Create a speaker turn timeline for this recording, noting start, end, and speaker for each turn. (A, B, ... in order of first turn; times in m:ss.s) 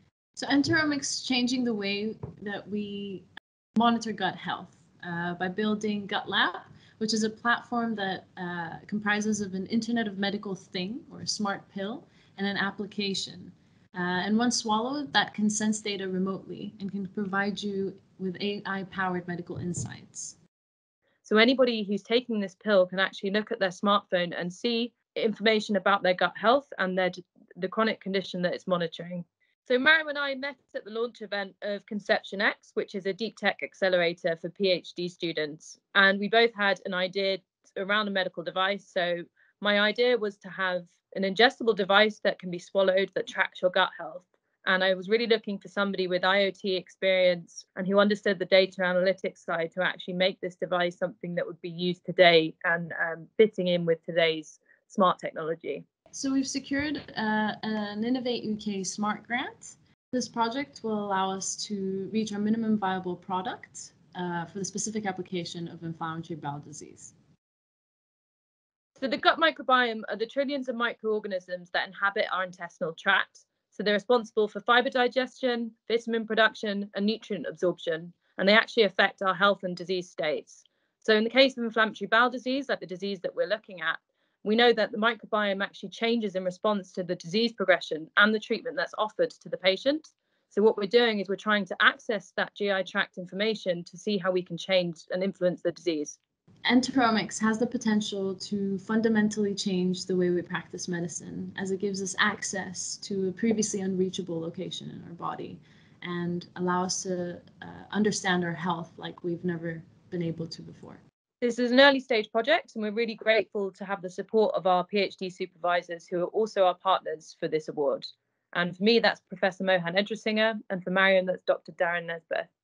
0:00.4-0:20.4 A
0:21.2-0:55.8 B
0:56.1-1:07.1 A
1:09.0-1:36.2 B
1:36.6-1:51.0 A
1:51.4-2:02.5 B